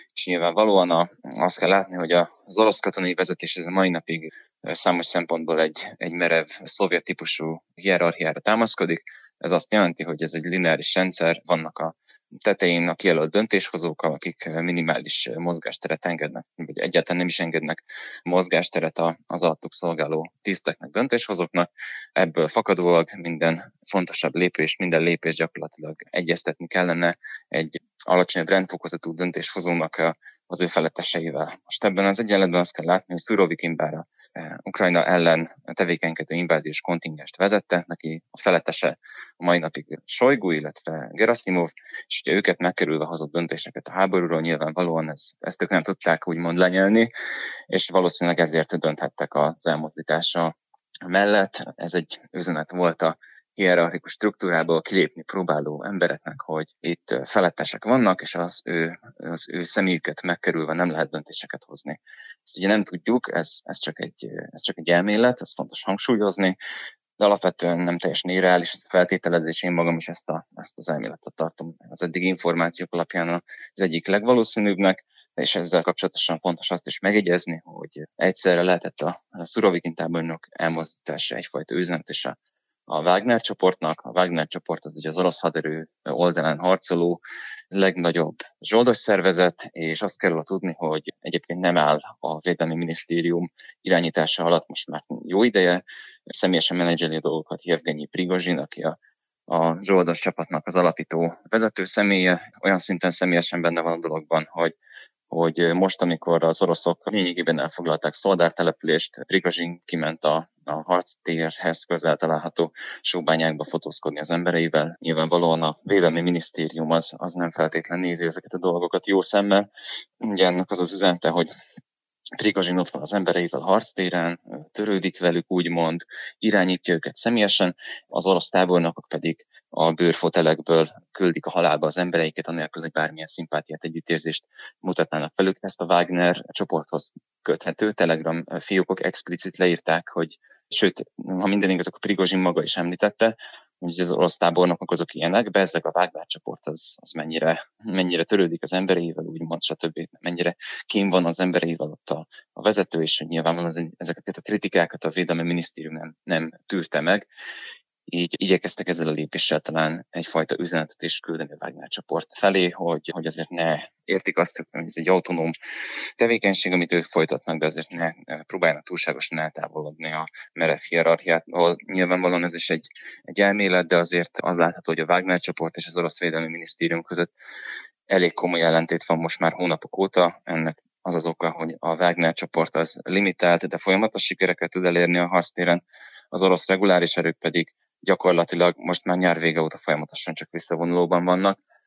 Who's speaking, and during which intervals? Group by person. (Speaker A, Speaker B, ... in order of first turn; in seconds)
Speaker A: 0.1-47.1, 47.7-50.5, 51.0-66.6, 67.2-82.3, 82.9-99.0, 99.5-104.8, 105.3-119.7, 120.2-121.5, 122.4-157.2, 158.1-165.5, 166.2-177.3, 178.1-185.8, 186.3-191.6